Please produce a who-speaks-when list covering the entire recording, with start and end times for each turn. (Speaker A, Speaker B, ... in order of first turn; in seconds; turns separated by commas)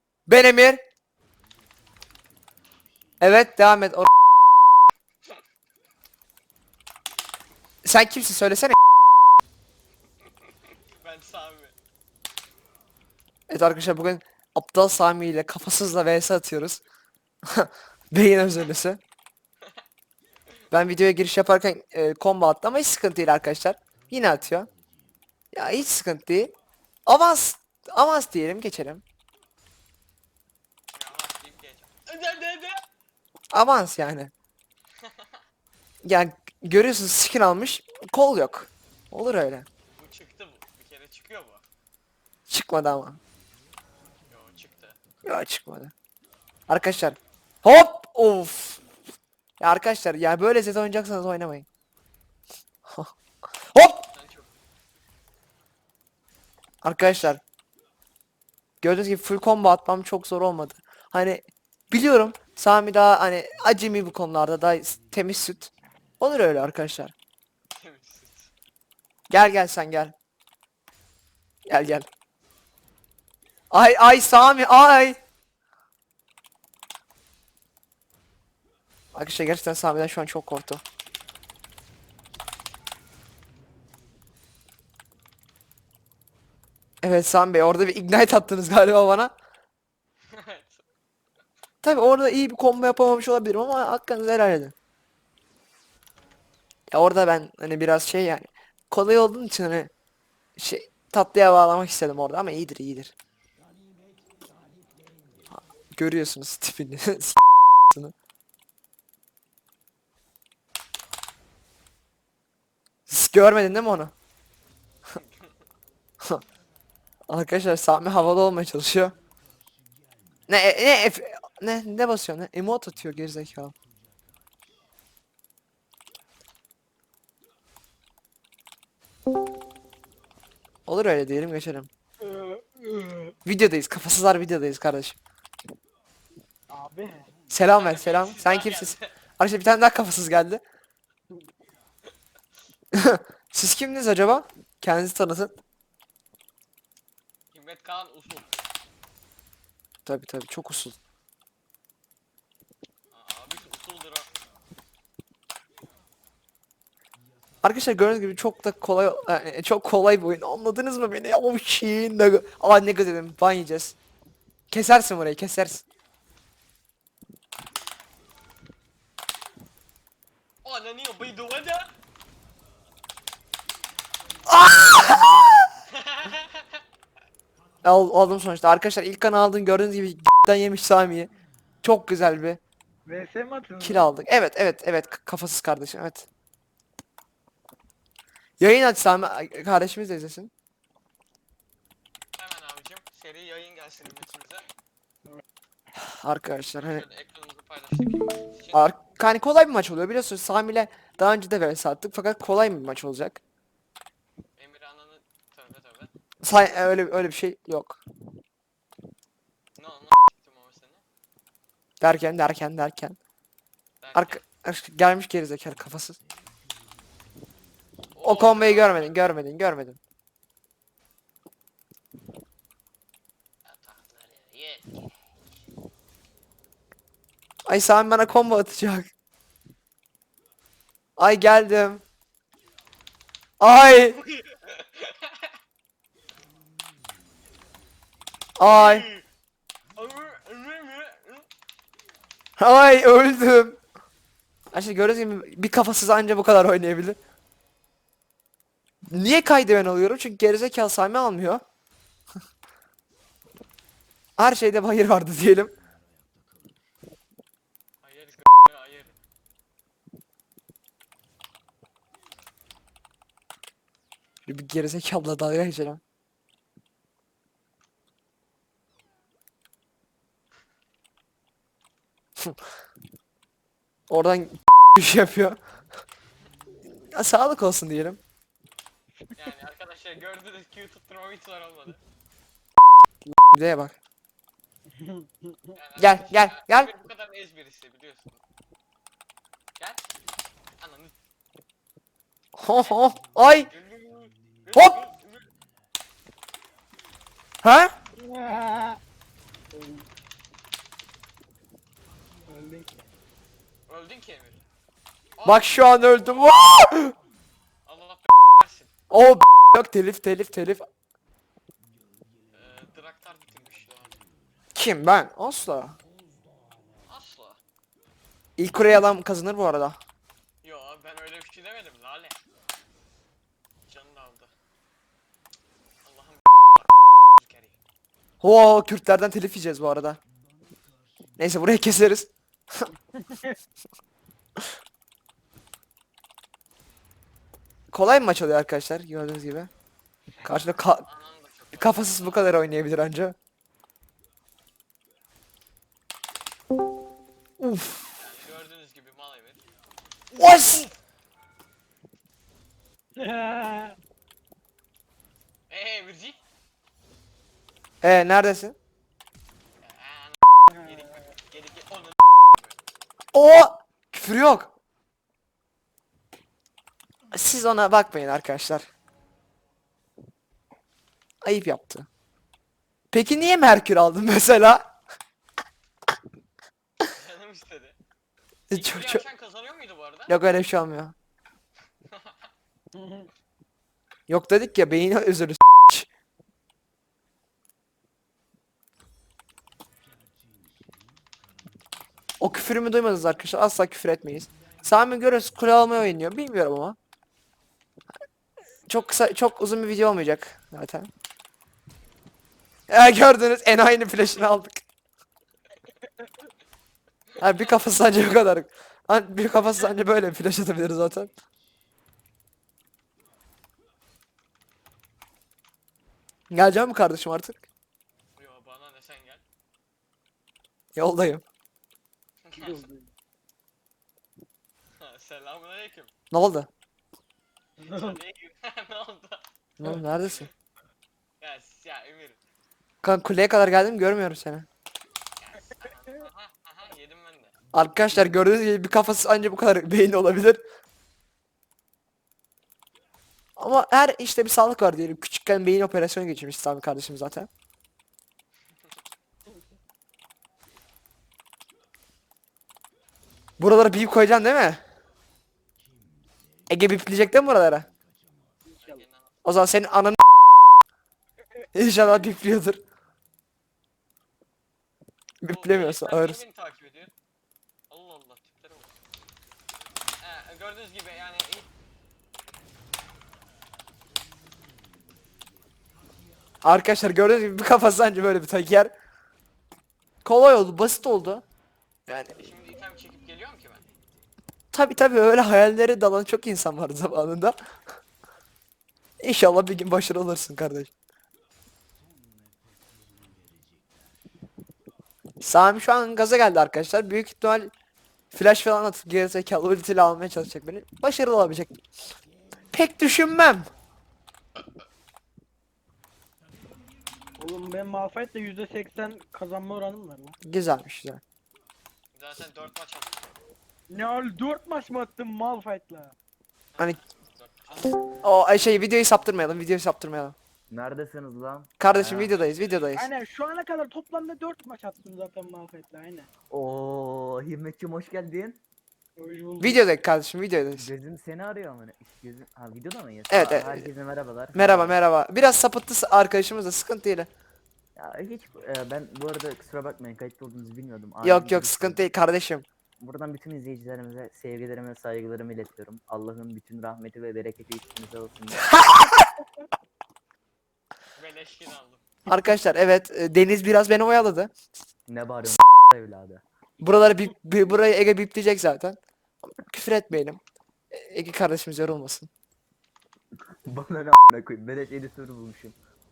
Speaker A: 0.3-0.8, Speaker A: 3.2-4.1, Speaker A: 7.8-8.8, Speaker B: 11.0-11.7, Speaker A: 13.5-16.8, Speaker A: 17.5-19.0, Speaker A: 20.7-24.7, Speaker A: 25.5-26.5, Speaker A: 27.1-29.0, Speaker B: 30.9-32.8, Speaker A: 33.5-34.3, Speaker A: 36.0-39.6, Speaker B: 40.0-41.6, Speaker A: 42.5-43.2, Speaker B: 44.3-45.0, Speaker A: 45.2-45.9, Speaker A: 46.7-48.8, Speaker A: 49.6-51.6, Speaker A: 52.9-53.1, Speaker A: 53.7-54.1, Speaker B: 54.1-54.5, Speaker A: 56.8-57.4, Speaker A: 58.8-67.1, Speaker B: 67.7-68.5, Speaker A: 69.3-70.1, Speaker A: 71.7-72.0, Speaker A: 73.7-75.2, Speaker A: 79.1-80.8, Speaker A: 87.0-89.3, Speaker B: 90.3-90.8, Speaker A: 91.8-94.7, Speaker A: 96.9-99.9, Speaker A: 100.6-103.1, Speaker A: 105.9-108.1, Speaker A: 113.1-114.1, Speaker B: 115.1-115.5, Speaker A: 117.3-119.1, Speaker A: 120.5-123.7, Speaker A: 130.9-131.9, Speaker C: 132.2-133.3, Speaker A: 133.4-135.2, Speaker C: 136.7-137.3, Speaker A: 137.5-140.6, Speaker B: 137.7-139.1, Speaker A: 142.9-145.5, Speaker B: 147.5-148.5, Speaker A: 150.1-151.0, Speaker B: 153.1-154.3, Speaker A: 157.6-163.9, Speaker A: 164.7-165.8, Speaker B: 170.6-171.9, Speaker A: 174.5-175.4, Speaker C: 174.5-175.7, Speaker B: 175.9-176.6, Speaker A: 177.8-181.3, Speaker A: 181.8-182.6, Speaker C: 183.1-184.1, Speaker A: 183.8-186.2, Speaker A: 188.6-190.5, Speaker B: 192.3-194.7, Speaker A: 195.9-197.1, Speaker B: 196.8-199.0, Speaker A: 198.7-203.4, Speaker B: 204.6-206.1, Speaker A: 206.4-208.0, Speaker B: 209.8-211.0, Speaker A: 212.0-213.2, Speaker B: 214.0-214.4, Speaker A: 214.1-216.2, Speaker B: 218.1-219.3, Speaker A: 218.2-220.0, Speaker B: 223.7-225.1, Speaker A: 227.7-229.1, Speaker A: 231.2-232.0, Speaker A: 233.6-234.2, Speaker B: 234.2-235.5, Speaker A: 238.6-239.1, Speaker B: 238.7-239.2, Speaker B: 239.9-241.5, Speaker A: 242.6-243.8, Speaker A: 244.7-247.2, Speaker A: 249.1-251.6, Speaker A: 254.4-255.7, Speaker B: 258.0-259.1, Speaker A: 264.5-266.0, Speaker A: 274.1-275.6, Speaker A: 277.1-278.2, Speaker B: 279.4-282.0, Speaker A: 283.5-283.9, Speaker C: 284.9-285.7, Speaker B: 285.7-288.4, Speaker A: 286.0-286.9, Speaker B: 289.8-290.0, Speaker B: 290.8-291.1, Speaker A: 292.6-293.7, Speaker B: 293.7-295.5, Speaker A: 294.7-295.0, Speaker A: 297.6-297.9, Speaker C: 298.2-299.0, Speaker C: 299.7-300.1, Speaker C: 302.5-302.9, Speaker B: 303.9-304.6, Speaker B: 305.4-305.7, Speaker A: 305.4-307.1, Speaker B: 307.9-308.9, Speaker A: 309.1-310.9, Speaker B: 312.5-314.2, Speaker A: 314.7-316.0, Speaker B: 317.1-317.6, Speaker A: 318.6-320.0, Speaker B: 320.6-322.4, Speaker B: 323.9-324.5, Speaker B: 326.0-327.8, Speaker A: 328.4-330.2, Speaker A: 331.4-332.9, Speaker C: 333.1-333.5, Speaker A: 337.9-339.7, Speaker A: 340.4-341.0, Speaker B: 341.0-342.5, Speaker A: 341.8-343.3, Speaker A: 347.6-348.0, Speaker B: 348.1-349.6, Speaker A: 350.3-350.9, Speaker B: 350.3-350.9, Speaker C: 353.1-353.9, Speaker B: 355.7-356.4, Speaker A: 358.0-358.7, Speaker B: 359.8-362.8, Speaker C: 360.7-361.1, Speaker A: 363.3-364.7, Speaker A: 367.3-368.8, Speaker A: 371.4-372.1, Speaker A: 373.1-374.9, Speaker B: 377.1-377.9, Speaker A: 378.7-379.2, Speaker B: 378.7-380.3, Speaker A: 380.3-381.1, Speaker B: 382.1-382.3, Speaker C: 382.9-383.3, Speaker A: 384.3-386.1, Speaker A: 392.4-396.9, Speaker A: 398.9-401.1, Speaker A: 402.9-404.8, Speaker A: 407.4-411.3, Speaker A: 416.5-417.7, Speaker B: 418.4-419.4, Speaker A: 420.9-421.4, Speaker B: 422.4-422.9, Speaker C: 422.6-423.1, Speaker B: 425.0-426.1, Speaker A: 426.3-426.7, Speaker C: 427.8-428.2, Speaker B: 427.8-429.4, Speaker A: 429.8-430.5, Speaker B: 431.4-432.4, Speaker A: 433.0-434.6, Speaker B: 435.4-437.5, Speaker A: 437.7-440.6, Speaker A: 443.6-447.5, Speaker A: 453.6-454.8, Speaker A: 456.7-457.9, Speaker B: 458.7-459.4, Speaker C: 458.8-459.0, Speaker A: 459.4-460.2, Speaker A: 461.7-462.8, Speaker A: 465.4-466.4, Speaker B: 465.5-467.1, Speaker B: 467.9-468.9, Speaker B: 470.2-471.7, Speaker A: 476.6-478.9, Speaker A: 480.2-481.4, Speaker B: 482.3-483.8, Speaker A: 484.7-487.6, Speaker A: 489.2-490.9, Speaker A: 495.4-497.7, Speaker A: 498.3-501.8, Speaker A: 502.7-503.7, Speaker C: 507.4-510.4, Speaker A: 510.4-511.2, Speaker B: 512.1-513.3, Speaker C: 513.9-516.1, Speaker B: 516.8-517.9, Speaker A: 518.2-520.3, Speaker D: 520.7-522.4, Speaker A: 521.8-523.1, Speaker B: 522.3-523.0, Speaker C: 522.9-526.3, Speaker D: 526.5-528.6, Speaker C: 529.2-529.8, Speaker A: 529.6-530.9, Speaker D: 530.7-535.0, Speaker A: 533.3-533.8, Speaker A: 534.5-537.3, Speaker D: 538.0-542.0, Speaker A: 541.2-542.6, Speaker D: 543.0-548.7, Speaker A: 548.8-549.0, Speaker B: 551.1-552.0, Speaker A: 552.3-554.5, Speaker D: 555.1-556.4, Speaker A: 556.8-559.0, Speaker A: 559.6-560.4, Speaker A: 560.9-562.3, Speaker D: 563.6-565.7